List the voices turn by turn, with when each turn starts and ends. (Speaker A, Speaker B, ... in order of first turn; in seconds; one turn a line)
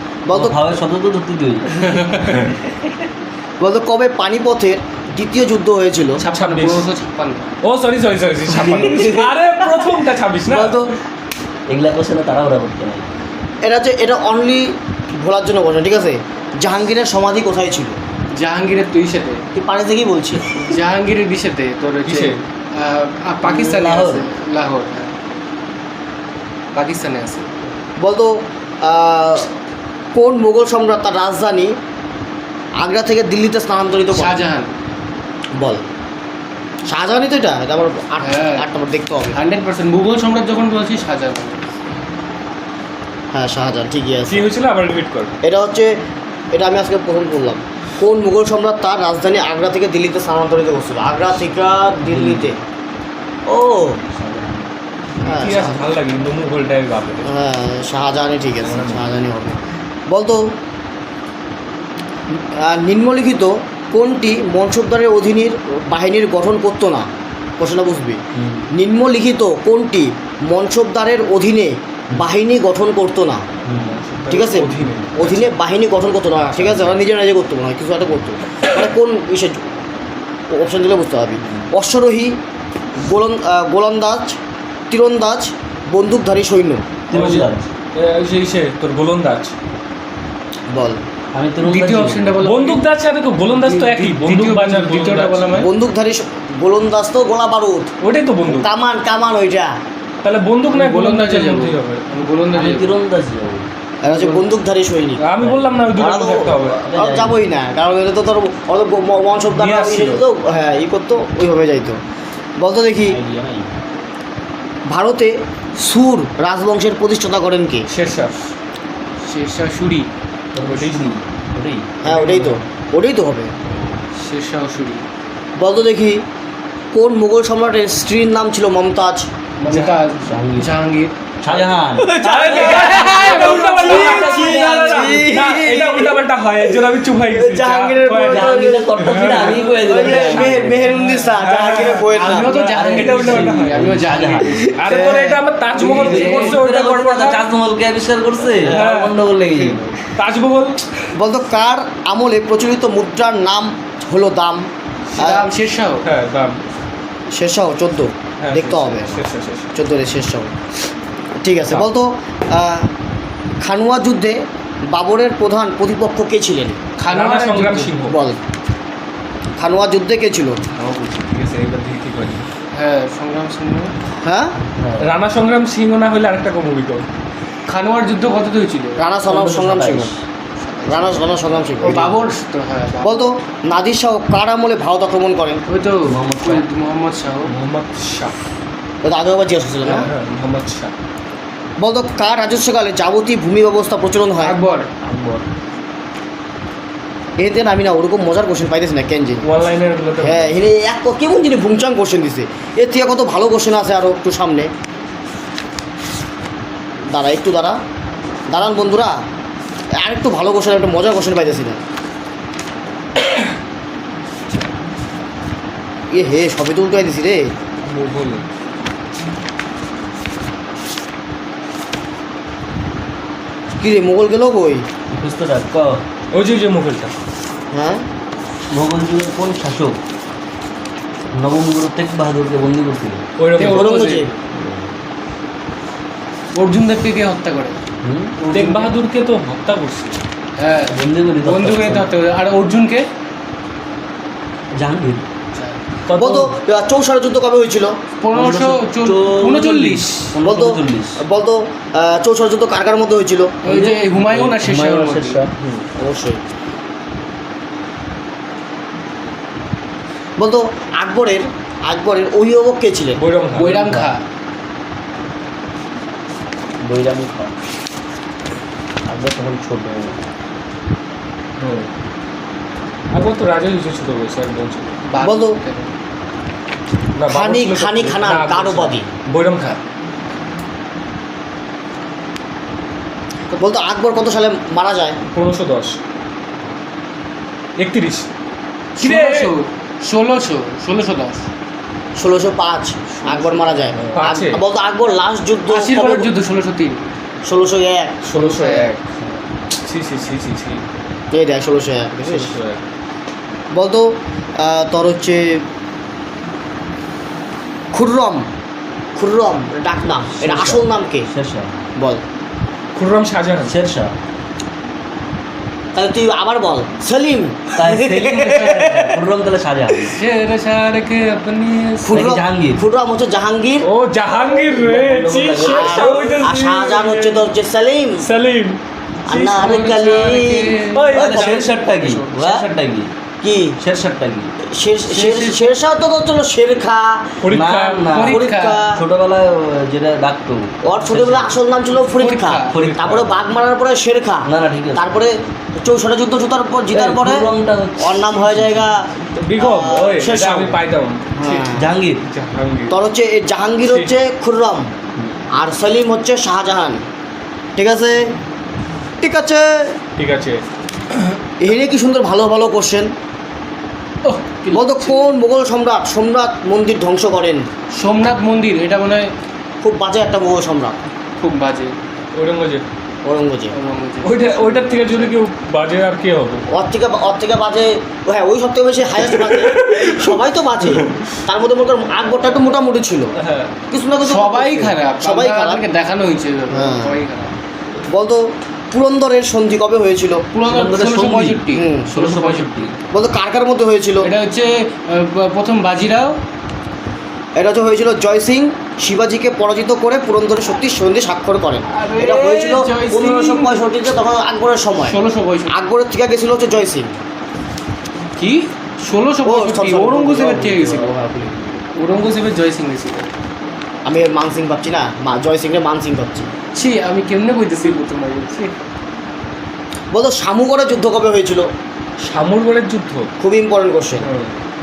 Speaker A: 0.2-0.6
Speaker B: 0.3-1.7
Speaker C: 1.7-2.2
Speaker A: 3.6-6.2
Speaker D: 6.2-6.9
Speaker C: 6.3-7.5
Speaker D: 7.6-10.8
Speaker B: 8.5-9.3
Speaker A: 10.5-10.9
Speaker B: 11.7-13.1
Speaker A: 13.6-17.9
Speaker C: 18.3-19.4
Speaker A: 19.5-20.7
Speaker C: 20.6-25.1
Speaker D: 22.1-22.4
Speaker B: 23.4-24.3
Speaker C: 26.7-27.5
Speaker A: 28.0-29.5
Speaker A: 30.1-31.7
Speaker A: 32.8-34.4
Speaker C: 34.1-34.7
Speaker A: 36.9-39.4
Speaker C: 38.2-38.6
Speaker C: 39.3-41.6
Speaker A: 43.3-44.5
Speaker D: 44.3-45.3
Speaker A: 45.4-46.0
Speaker A: 46.5-52.6
Speaker B: 52.0-52.5
Speaker A: 53.5-54.0
Speaker B: 54.1-54.7
Speaker A: 55.2-55.8
Speaker D: 55.2-57.3
Speaker A: 57.3-60.4
Speaker D: 58.6-59.2
Speaker A: 62.4-67.1
Speaker A: 67.6-68.2
Speaker B: 68.3-68.7
Speaker A: 68.7-73.4
Speaker B: 73.7-74.0
Speaker D: 73.8-75.5
Speaker A: 74.3-79.6
Speaker B: 76.6-77.0
Speaker A: 80.5-82.4
Speaker A: 83.0-84.4
Speaker A: 84.9-86.8
Speaker B: 87.1-87.7
Speaker D: 87.1-89.5
Speaker A: 90.7-91.0
Speaker B: 91.3-92.3
Speaker C: 91.6-92.9
Speaker D: 92.4-95.6
Speaker C: 93.4-95.7
Speaker A: 95.6-97.9
Speaker D: 98.0-98.7
Speaker A: 98.5-99.7
Speaker D: 100.2-102.0
Speaker C: 100.7-103.0
Speaker B: 102.5-103.7
Speaker A: 104.0-105.2
Speaker C: 104.1-104.4
Speaker D: 105.2-106.8
Speaker B: 105.4-105.9
Speaker A: 106.0-112.0
Speaker B: 106.7-107.4
Speaker D: 109.5-110.2
Speaker A: 112.6-113.2
Speaker B: 113.0-113.7
Speaker A: 114.9-117.9
Speaker D: 117.9-118.3
Speaker C: 119.2-120.1
Speaker B: 120.5-121.9
Speaker D: 120.6-121.2
Speaker A: 122.0-123.5
Speaker D: 122.0-122.6
Speaker C: 124.2-125.0
Speaker A: 125.6-126.2
Speaker A: 126.9-129.3
Speaker C: 129.6-131.7
Speaker D: 129.7-129.9
Speaker B: 130.2-130.7
Speaker B: 131.4-135.3
Speaker D: 132.1-143.8
Speaker C: 132.2-134.6
Speaker A: 132.2-132.8
Speaker A: 133.3-136.2
Speaker A: 137.3-142.6
Speaker B: 138.2-140.9
Speaker C: 142.1-144.7
Speaker B: 142.7-144.6
Speaker D: 144.8-147.4
Speaker A: 144.8-145.4
Speaker C: 145.7-146.6
Speaker B: 145.9-149.9
Speaker D: 148.7-149.2
Speaker D: 150.2-150.8
Speaker A: 151.1-154.6
Speaker A: 155.2-155.5
Speaker C: 155.2-156.0
Speaker D: 156.0-156.6
Speaker A: 157.3-159.2
Speaker D: 158.4-159.7
Speaker A: 159.7-160.5
Speaker A: 161.4-162.9
Speaker A: 163.6-164.4
Speaker A: 164.9-166.8
Speaker C: 167.0-168.1
Speaker D: 167.1-168.1
Speaker A: 168.1-168.4
Speaker A: 169.6-170.6
Speaker D: 170.7-172.5
Speaker C: 172.7-173.9
Speaker A: 174.2-174.5
Speaker B: 174.8-175.1
Speaker D: 175.0-177.1
Speaker C: 177.7-179.0
Speaker A: 179.0-180.1
Speaker B: 179.2-180.2
Speaker C: 180.6-183.3
Speaker A: 180.9-182.1
Speaker A: 183.0-185.6
Speaker C: 185.7-187.5
Speaker B: 186.0-186.6
Speaker D: 187.5-188.4
Speaker A: 189.0-190.1
Speaker D: 190.0-190.9
Speaker A: 191.8-194.5
Speaker C: 194.4-194.9
Speaker B: 195.0-195.4
Speaker A: 197.4-199.4
Speaker D: 199.4-200.6
Speaker A: 200.2-204.7
Speaker A: 207.1-207.8
Speaker A: 208.5-209.1
Speaker A: 210.0-211.8
Speaker A: 216.1-217.5
Speaker D: 217.8-218.4
Speaker A: 223.8-224.8
Speaker B: 225.1-226.0
Speaker D: 226.3-227.1
Speaker A: 227.7-228.0
Speaker B: 228.7-230.0
Speaker B: 231.3-233.2
Speaker D: 233.4-233.9
Speaker C: 233.6-234.2
Speaker A: 233.6-234.3
Speaker B: 234.5-234.9
Speaker C: 236.5-237.8
Speaker B: 238.0-238.3
Speaker C: 238.4-238.9
Speaker D: 238.5-240.2
Speaker C: 240.6-243.0
Speaker B: 240.9-242.1
Speaker B: 244.7-245.2
Speaker C: 245.5-245.8
Speaker D: 246.1-246.5
Speaker A: 246.2-247.9
Speaker C: 248.2-250.2
Speaker B: 248.3-251.2
Speaker A: 250.4-253.5
Speaker C: 253.6-255.4
Speaker B: 253.7-255.5
Speaker A: 255.9-256.4
Speaker A: 260.4-263.2
Speaker D: 263.2-263.7
Speaker C: 263.5-264.2
Speaker B: 263.6-264.1
Speaker B: 266.8-267.5
Speaker B: 269.1-270.2
Speaker D: 271.6-271.9
Speaker D: 273.1-274.9
Speaker C: 275.1-275.9
Speaker A: 275.2-275.6
Speaker D: 277.1-279.8
Speaker A: 277.3-279.1
Speaker A: 283.6-285.2
Speaker D: 285.3-286.0
Speaker D: 287.8-288.3
Speaker C: 289.0-291.5
Speaker D: 289.0-289.5
Speaker A: 292.1-296.3
Speaker C: 293.1-293.9
Speaker D: 294.1-294.6
Speaker C: 295.7-297.1
Speaker A: 297.4-298.1
Speaker D: 298.2-299.0
Speaker C: 298.4-298.9
Speaker D: 299.8-300.8
Speaker A: 301.3-302.5
Speaker D: 302.2-302.8
Speaker A: 303.7-304.1
Speaker A: 304.6-305.6
Speaker A: 307.9-308.4
Speaker A: 309.1-311.3
Speaker B: 310.4-311.8
Speaker D: 312.9-313.7
Speaker B: 313.6-314.1
Speaker A: 315.9-319.2
Speaker B: 317.8-320.2
Speaker C: 320.1-322.3
Speaker A: 322.1-323.9
Speaker B: 322.1-322.8
Speaker D: 323.8-327.5
Speaker B: 324.5-326.3
Speaker A: 325.6-328.2
Speaker D: 328.2-328.8
Speaker A: 329.3-332.6
Speaker C: 329.3-332.2
Speaker D: 330.9-331.6
Speaker B: 331.1-333.1
Speaker A: 333.4-333.8
Speaker B: 333.8-334.5
Speaker A: 334.7-337.3
Speaker C: 335.1-335.7
Speaker D: 337.4-338.2
Speaker B: 337.5-341.6
Speaker C: 338.1-338.8
Speaker A: 338.2-339.0
Speaker A: 340.8-347.5
Speaker C: 342.1-342.8
Speaker B: 342.7-343.4
Speaker D: 342.8-343.2
Speaker B: 344.4-345.5
Speaker B: 346.9-348.9
Speaker A: 348.0-350.8
Speaker D: 349.3-351.6
Speaker A: 351.4-351.9
Speaker B: 351.7-352.2
Speaker D: 352.3-352.9
Speaker A: 352.9-354.9
Speaker D: 353.8-354.1
Speaker B: 355.2-355.4
Speaker A: 355.5-357.0
Speaker A: 357.8-358.3
Speaker A: 359.2-359.9
Speaker D: 360.2-360.6
Speaker A: 361.6-363.1
Speaker C: 364.2-365.3
Speaker A: 364.7-367.7
Speaker C: 367.9-369.3
Speaker A: 369.8-371.0
Speaker C: 371.4-371.9
Speaker D: 372.3-372.8
Speaker A: 373.2-373.7
Speaker C: 373.7-375.3
Speaker D: 374.2-376.6
Speaker A: 376.7-383.3
Speaker D: 379.3-380.4
Speaker D: 383.4-383.7
Speaker A: 383.9-385.8
Speaker C: 384.2-387.5
Speaker A: 386.7-387.2
Speaker A: 388.1-390.4
Speaker C: 390.5-392.9
Speaker B: 390.6-392.9
Speaker A: 391.7-392.1
Speaker A: 393.1-394.3
Speaker C: 394.2-396.4
Speaker A: 397.6-405.2
Speaker C: 401.9-403.8
Speaker C: 405.0-405.7
Speaker A: 405.7-407.1
Speaker C: 408.4-413.3
Speaker A: 409.4-411.1
Speaker A: 414.0-416.5
Speaker C: 416.7-418.7
Speaker A: 420.1-421.7
Speaker D: 422.2-423.3
Speaker A: 423.4-424.2
Speaker D: 424.2-424.6